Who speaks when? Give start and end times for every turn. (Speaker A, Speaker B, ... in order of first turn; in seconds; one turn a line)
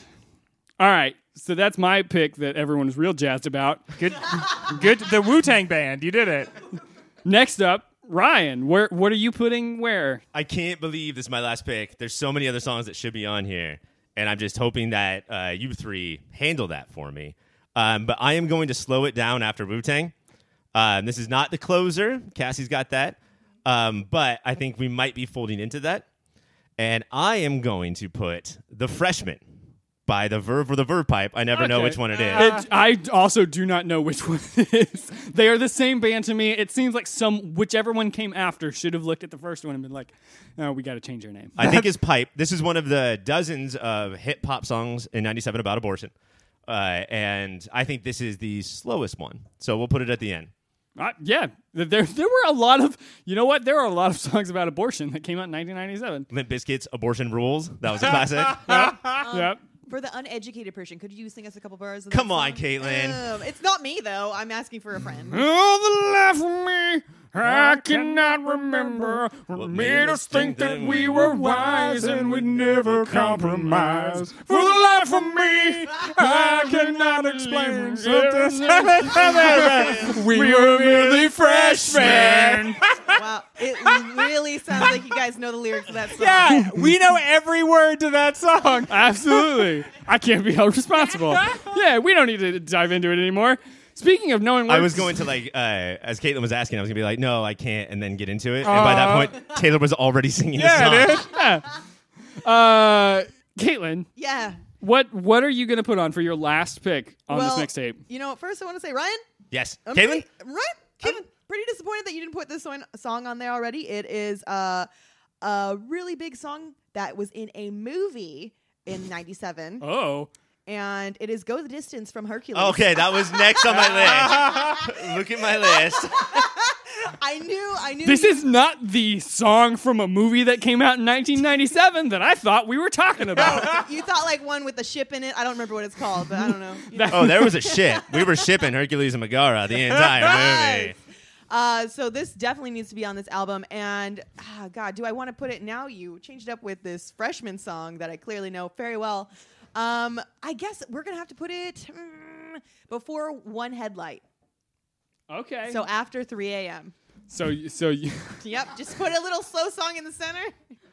Speaker A: 0.8-3.9
Speaker B: 4.0-6.5
Speaker A: 7.2-10.2
Speaker C: 10.3-20.1
Speaker C: 20.7-26.1
Speaker C: 26.8-29.4
Speaker C: 30.1-32.6
Speaker A: 31.5-41.7
Speaker B: 32.3-32.6
Speaker C: 41.6-46.1
Speaker C: 46.7-50.5
Speaker A: 51.0-56.3
Speaker C: 56.3-58.8
Speaker B: 58.2-59.2
Speaker A: 58.7-59.6
Speaker D: 59.2-65.4
Speaker C: 62.1-63.2
Speaker A: 65.3-82.8
Speaker C: 69.5-73.4
Speaker B: 73.1-83.2
Speaker D: 83.1-86.8
Speaker B: 83.9-84.2
Speaker B: 86.2-89.7
Speaker A: 88.9-95.2
Speaker C: 94.7-101.3
Speaker B: 98.6-99.4
Speaker B: 100.5-101.3
Speaker A: 101.2-101.8
Speaker A: 102.4-104.1
Speaker D: 104.2-104.6
Speaker A: 104.8-108.0
Speaker D: 107.3-109.2
Speaker C: 109.5-110.3
Speaker D: 109.9-114.9
Speaker D: 115.4-119.8
Speaker A: 119.8-120.3
Speaker D: 120.7-128.4
Speaker C: 122.5-126.4
Speaker A: 128.0-133.8
Speaker D: 133.3-138.4
Speaker A: 136.9-137.5
Speaker C: 137.1-140.9
Speaker D: 139.9-140.9
Speaker D: 141.5-154.2
Speaker A: 155.3-155.9
Speaker D: 155.7-156.9
Speaker A: 157.3-158.4
Speaker D: 158.4-160.6